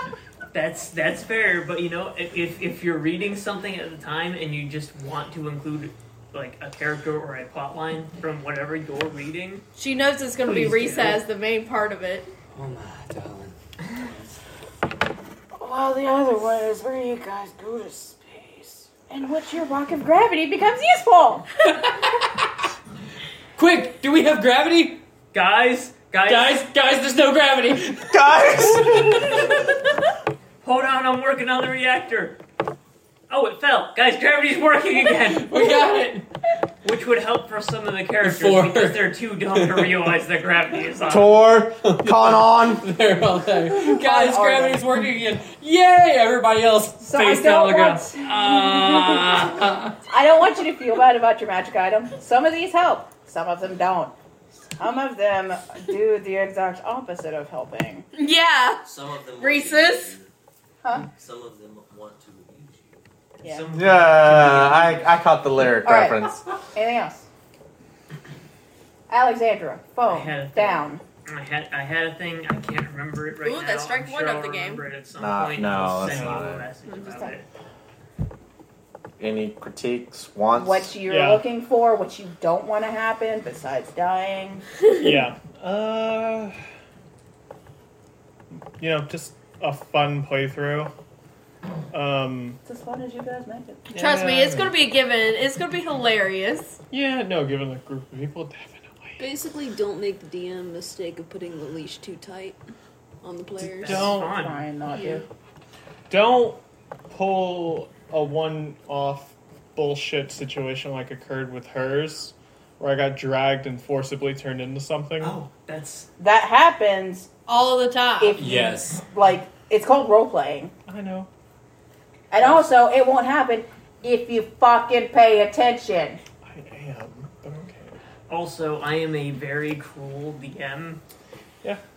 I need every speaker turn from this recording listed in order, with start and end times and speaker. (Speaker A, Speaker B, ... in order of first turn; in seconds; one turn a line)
Speaker A: 0.5-9.7
Speaker B: 9.7-12.3
Speaker A: 10.4-11.2
Speaker C: 12.5-14.3
Speaker D: 15.6-21.4
Speaker C: 21.7-22.2
Speaker C: 23.6-25.0
Speaker A: 25.3-26.7
Speaker C: 26.2-29.2
Speaker E: 28.1-29.1
Speaker A: 30.6-32.4
Speaker A: 33.3-35.7
Speaker C: 35.2-36.2
Speaker A: 36.8-41.4
Speaker C: 38.2-40.0
Speaker E: 41.1-42.9
Speaker C: 41.8-49.9
Speaker D: 43.7-44.9
Speaker D: 47.0-49.4
Speaker A: 48.2-49.2
Speaker D: 50.1-54.1
Speaker D: 54.8-58.1
Speaker B: 58.1-58.8
Speaker F: 58.8-60.3
Speaker B: 59.4-60.2
Speaker F: 61.1-63.0
Speaker D: 63.4-63.7
Speaker A: 63.4-65.2
Speaker E: 63.7-66.4
Speaker D: 65.8-67.3
Speaker D: 69.1-71.0
Speaker A: 70.1-77.5
Speaker B: 73.4-74.8
Speaker E: 75.2-76.7
Speaker G: 76.0-76.5
Speaker H: 76.9-77.3
Speaker D: 77.0-77.3
Speaker E: 79.2-80.9
Speaker D: 80.5-84.6
Speaker G: 81.0-81.4
Speaker G: 85.0-86.6
Speaker G: 88.8-90.9
Speaker G: 91.9-92.6
Speaker D: 92.7-93.8
Speaker G: 93.9-94.8
Speaker B: 93.9-96.8
Speaker G: 96.9-99.2
Speaker H: 99.2-102.6
Speaker H: 103.2-104.2
Speaker A: 103.8-104.7
Speaker G: 103.8-104.3
Speaker D: 103.9-105.2
Speaker H: 104.8-105.2
Speaker G: 106.1-106.6
Speaker G: 107.1-115.4
Speaker A: 115.2-116.1
Speaker D: 116.2-117.3
Speaker B: 117.5-118.4
Speaker D: 118.2-120.7
Speaker C: 118.4-119.0
Speaker G: 120.9-121.3
Speaker D: 122.3-126.2
Speaker G: 126.5-128.0
Speaker A: 128.3-131.0